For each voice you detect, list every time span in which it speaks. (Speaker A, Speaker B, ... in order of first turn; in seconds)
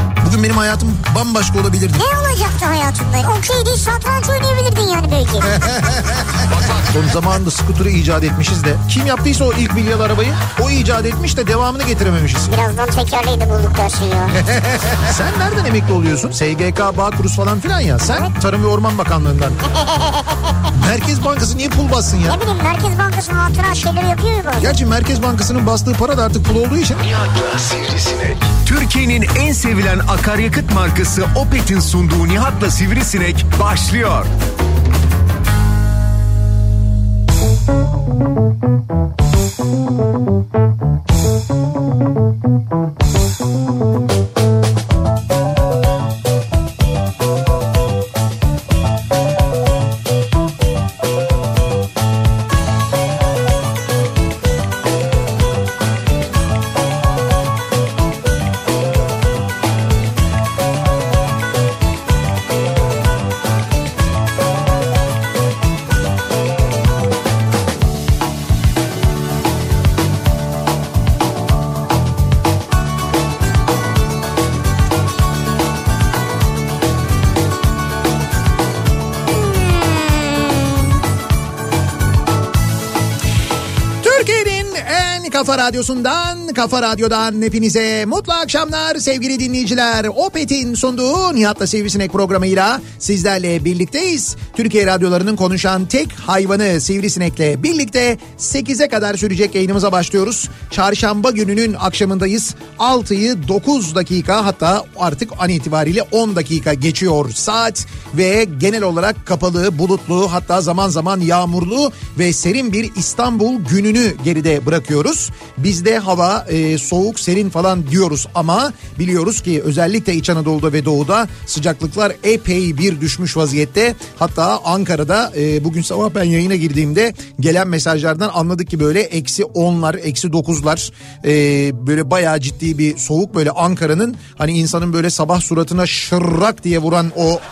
Speaker A: 0.2-2.0, 5.4-12.5, 14.4-19.6, 20.7-22.4, 24.6-27.1, 84.0-137.4
Speaker B: 1.9-5.6, 12.5-14.4, 19.7-20.7, 22.2-24.8, 79.4-80.4
Speaker C: 27.0-34.3